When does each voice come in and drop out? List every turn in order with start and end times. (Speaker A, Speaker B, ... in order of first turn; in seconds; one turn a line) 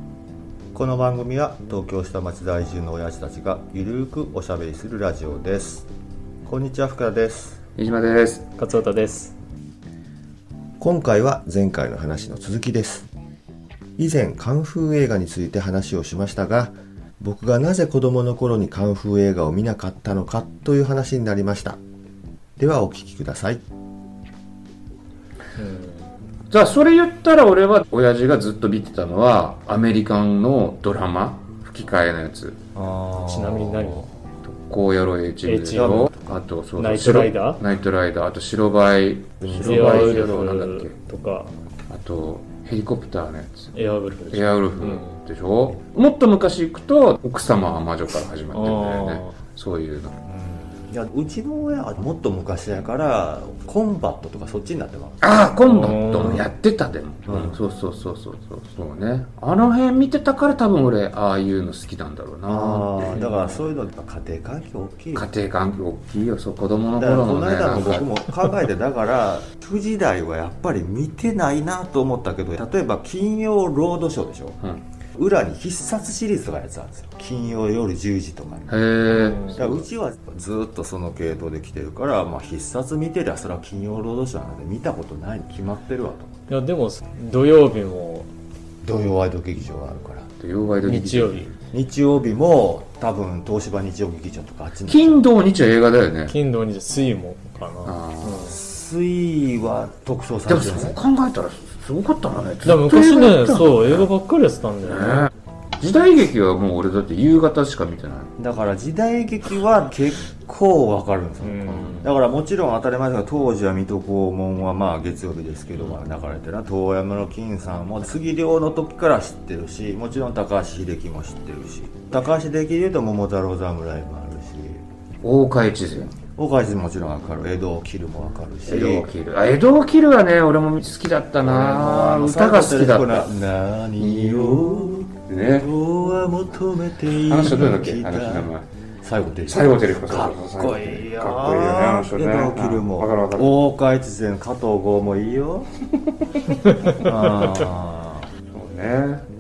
Speaker A: 0.7-5.9
Speaker A: 6.5-7.6
Speaker B: 7.8-8.5
Speaker C: 8.6-9.3
Speaker A: 10.8-13.1
Speaker A: 14.0-21.8
Speaker A: 22.6-23.6
Speaker C: 25.6-26.1
Speaker B: 26.5-32.6
Speaker A: 32.7-34.0
Speaker C: 33.2-34.1
Speaker B: 34.4-40.9
Speaker C: 35.4-36.1
Speaker A: 35.7-36.4
Speaker C: 36.8-37.6
Speaker A: 39.4-40.4
Speaker C: 39.6-41.5
Speaker B: 41.9-43.7
Speaker C: 43.7-45.1
Speaker B: 44.3-50.2
Speaker C: 48.5-49.3
Speaker A: 50.3-55.2
Speaker B: 55.2-63.2
Speaker C: 55.6-56.4
Speaker A: 57.3-57.6
Speaker A: 62.5-65.3
Speaker C: 63.1-63.5
Speaker B: 65.1-68.5
Speaker A: 67.0-74.6
Speaker A: 75.1-78.8
Speaker B: 78.7-79.7
Speaker C: 79.1-79.8
Speaker A: 79.5-86.3
Speaker C: 86.5-88.3
Speaker A: 88.8-90.3
Speaker B: 90.4-91.5
Speaker C: 90.8-91.5
Speaker A: 91.7-95.3
Speaker B: 94.9-96.3
Speaker C: 96.3-98.6
Speaker B: 97.8-98.4
Speaker A: 98.5-101.0
Speaker B: 100.5-104.1
Speaker C: 102.6-105.3
Speaker B: 104.8-108.3
Speaker A: 108.4-124.8
Speaker C: 111.4-112.1
Speaker B: 125.2-126.2
Speaker A: 126.3-129.1
Speaker B: 128.7-133.3
Speaker A: 131.4-145.7
Speaker B: 134.0-135.7
Speaker B: 137.1-138.7
Speaker B: 139.5-143.5
Speaker A: 146.9-148.3
Speaker B: 148.5-149.2